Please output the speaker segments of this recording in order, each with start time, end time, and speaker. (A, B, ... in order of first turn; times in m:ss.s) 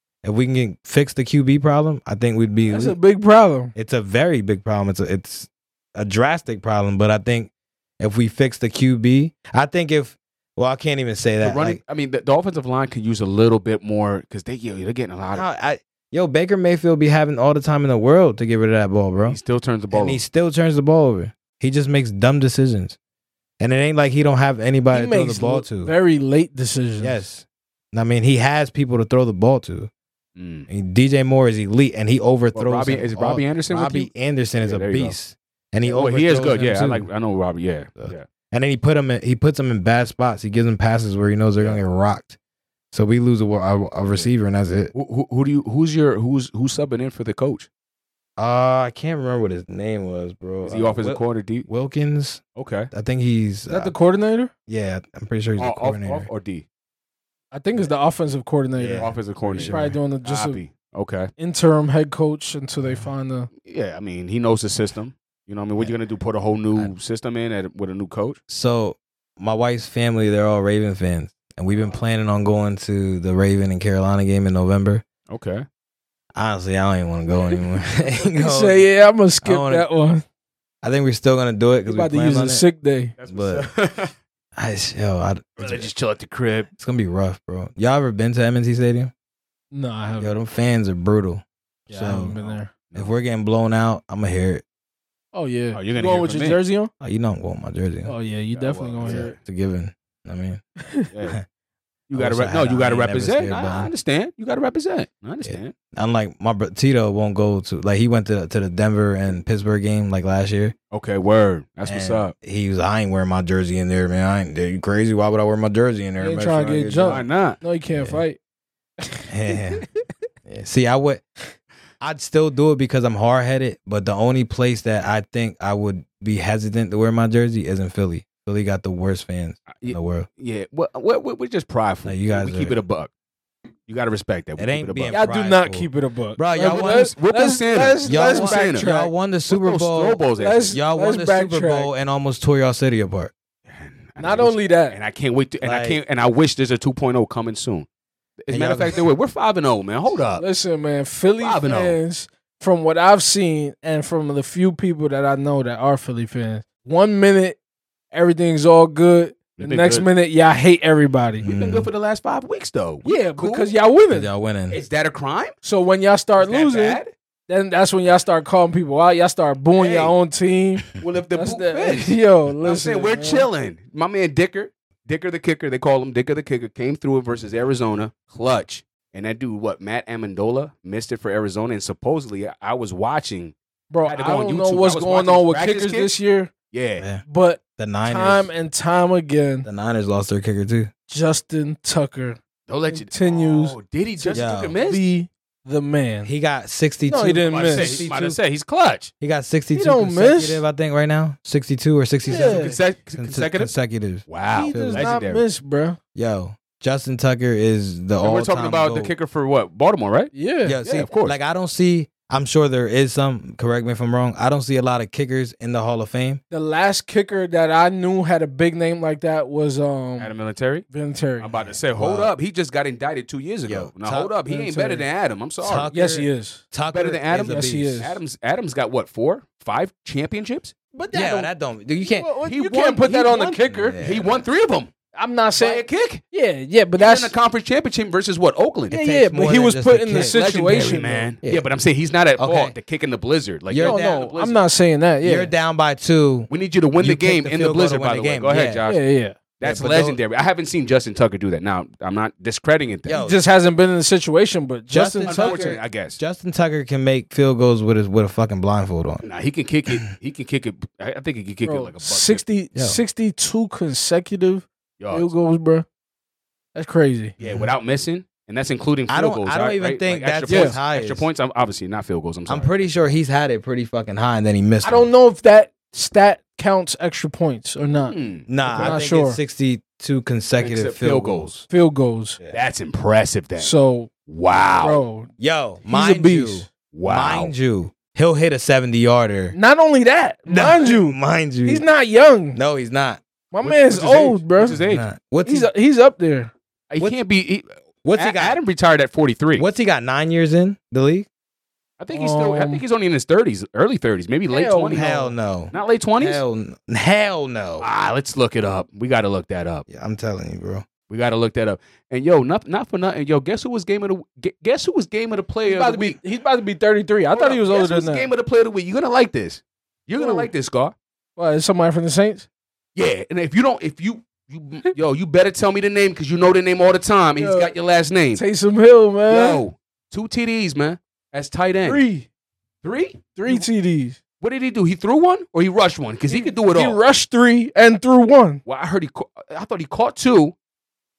0:00.2-0:03.0 A
0:02.7-0:03.7 B
0:03.7-0:11.8 A
0:11.4-0:15.4 C
0:15.3-0:19.4 A
0:19.2-0:20.2 C
0:19.9-0:23.0 A
0:23.6-0:25.9 A
0:24.9-0:27.2 B
0:27.0-0:29.9 A
0:30.4-0:30.7 C
0:30.7-0:37.1 A
0:32.5-0:35.2 C
0:35.8-0:38.2 C
0:38.0-0:42.4 A
0:42.9-0:44.9 A
0:44.9-0:47.7 C
0:48.4-0:53.9 A
0:50.6-0:51.7 C
0:52.6-0:52.9 C
0:53.7-0:54.5 B
0:54.7-0:56.3 A
0:55.6-0:56.6 C
0:57.5-1:00.6 B
0:58.8-1:00.0 A
0:59.0-1:01.3 C
1:01.4-1:03.5 B
1:03.6-1:08.4 C
1:08.5-1:15.0 A
1:15.3-1:15.6 C
1:16.3-1:18.8 A
1:18.3-1:20.2 B
1:19.4-1:19.9 A
1:20.8-1:22.6 A
1:21.9-1:23.1 B
1:23.2-1:24.1 C
1:23.3-1:23.7 A
1:24.6-1:25.9 A
1:25.6-1:26.7 C
1:26.7-1:29.1 A
1:29.7-1:30.3 B
1:30.2-1:32.4 A
1:31.9-1:32.7 B
1:32.3-1:33.1 C
1:32.9-1:34.6 A
1:35.3-1:36.9 B
1:35.7-1:36.6 C
1:37.0-1:38.1 A
1:38.0-1:39.4 B
1:38.5-1:39.4 C
1:39.0-1:40.6 A
1:41.1-1:41.4 C
1:42.1-1:45.7 C
1:42.1-1:43.9 A
1:45.4-1:50.7 A
1:50.9-1:52.3 C
1:51.8-1:57.2 A
1:56.2-1:58.4 B
1:57.0-1:57.6 C
1:58.0-1:58.2 A
1:59.0-1:59.8 B
1:59.3-1:59.8 A
2:00.4-2:01.2 A
2:02.0-2:10.3 A
2:09.7-2:13.1 C
2:12.0-2:12.8 A
2:13.9-2:15.2 C
2:14.6-2:17.1 A
2:15.1-2:19.1 B
2:16.6-2:18.9 C
2:18.0-2:23.3 A
2:19.5-2:20.8 C
2:20.4-2:21.9 B
2:23.6-2:27.9 C
2:24.2-2:25.0 B
2:25.6-2:26.0 A
2:28.4-2:30.4 C
2:28.5-2:29.0 A
2:30.4-2:37.6 B
2:31.4-2:32.0 C
2:38.1-2:41.5 B
2:39.6-2:40.1 C
2:41.4-2:41.9 A
2:41.4-2:43.7 C
2:43.0-2:44.3 B
2:44.1-2:44.8 A
2:44.7-2:45.5 C
2:45.6-2:53.5 B
2:46.4-2:47.1 C
2:49.8-2:50.1 C
2:51.0-3:06.1 C
3:03.9-3:06.5 B
3:06.7-3:07.0 C
3:07.0-3:07.2 A
3:07.2-3:09.7 B
3:07.8-3:08.5 A
3:09.6-3:10.9 A
3:11.1-3:16.3 B
3:12.7-3:15.0 C
3:14.3-3:14.8 A
3:16.2-3:18.4 A
3:17.1-3:18.1 B
3:17.5-3:19.1 C
3:19.2-3:25.1 A
3:19.7-3:20.6 B
3:22.2-3:22.8 B
3:22.2-3:23.7 C
3:24.3-3:25.4 C
3:24.5-3:26.0 B
3:26.1-3:29.1 A
3:28.2-3:30.3 C
3:30.3-3:30.8 B
3:30.6-3:36.4 A
3:30.8-3:31.3 C
3:36.5-3:40.3 B
3:40.2-3:40.9 C
3:40.9-3:41.5 B
3:41.4-3:45.9 C
3:41.9-3:42.3 A
3:43.6-3:44.9 A
3:44.5-3:45.0 B
3:45.6-3:48.0 A
3:45.9-3:46.7 B
3:46.9-3:50.7 C
3:47.4-3:48.2 B
3:50.9-3:51.5 B
3:51.1-3:52.3 A
3:52.1-3:54.0 B
3:52.4-3:54.9 C
3:53.6-3:54.4 A
3:55.1-3:57.3 B
3:55.6-3:56.2 C
3:57.0-3:59.0 C
3:58.9-4:01.3 B
3:58.9-4:00.8 A
4:00.2-4:04.6 C
4:02.4-4:02.7 A
4:03.7-4:04.3 A
4:03.8-4:05.5 B
4:05.2-4:08.8 A
4:06.5-4:09.0 C
4:08.8-4:09.4 B
4:09.6-4:13.2 C
4:09.6-4:10.2 A
4:13.0-4:13.4 A
4:13.1-4:15.8 B
4:14.9-4:19.2 A
4:15.2-4:16.2 C
4:19.2-4:22.4 C
4:21.6-4:25.8 B
4:22.7-4:23.0 A
4:25.0-4:25.3 C
4:26.7-4:27.3 B
4:27.4-4:33.1 C
4:27.4-4:27.7 A
4:29.1-4:31.3 A
4:30.5-4:30.8 B
4:32.5-4:35.1 A
4:34.8-4:39.4 B
4:38.1-4:39.0 C
4:38.5-4:41.6 A
4:40.6-4:41.6 C
4:41.7-4:42.4 B
4:42.5-4:43.7 C
4:43.6-4:44.1 B
4:44.3-4:45.0 C
4:44.8-4:45.3 B
4:45.4-4:49.5 A
4:45.8-4:46.7 B
4:46.9-4:47.5 C
4:49.5-4:52.6 B
4:50.5-4:51.8 A
4:52.5-4:53.2 A
4:53.5-4:54.8 B
4:53.6-4:55.0 C
4:54.7-4:55.7 A
4:55.4-4:56.5 B
4:56.9-4:59.7 C
4:58.0-4:58.6 A
4:59.6-5:01.3 A
5:02.0-5:05.1 C
5:02.1-5:02.8 B
5:04.5-5:05.3 B
5:04.9-5:07.9 A
5:05.7-5:06.4 C
5:07.8-5:09.8 C
5:09.9-5:10.9 A
5:11.1-5:16.2 C
5:15.6-5:18.2 B
5:17.3-5:20.9 C
5:20.2-5:20.5 B
5:21.4-5:22.4 B
5:22.9-5:28.4 C
5:27.4-5:27.7 B
5:28.3-5:29.6 B
5:29.3-5:32.0 C
5:31.8-5:32.3 B
5:32.8-5:33.7 C
5:33.3-5:34.2 B
5:34.4-5:37.0 C
5:36.3-5:38.6 B
5:38.6-5:40.5 C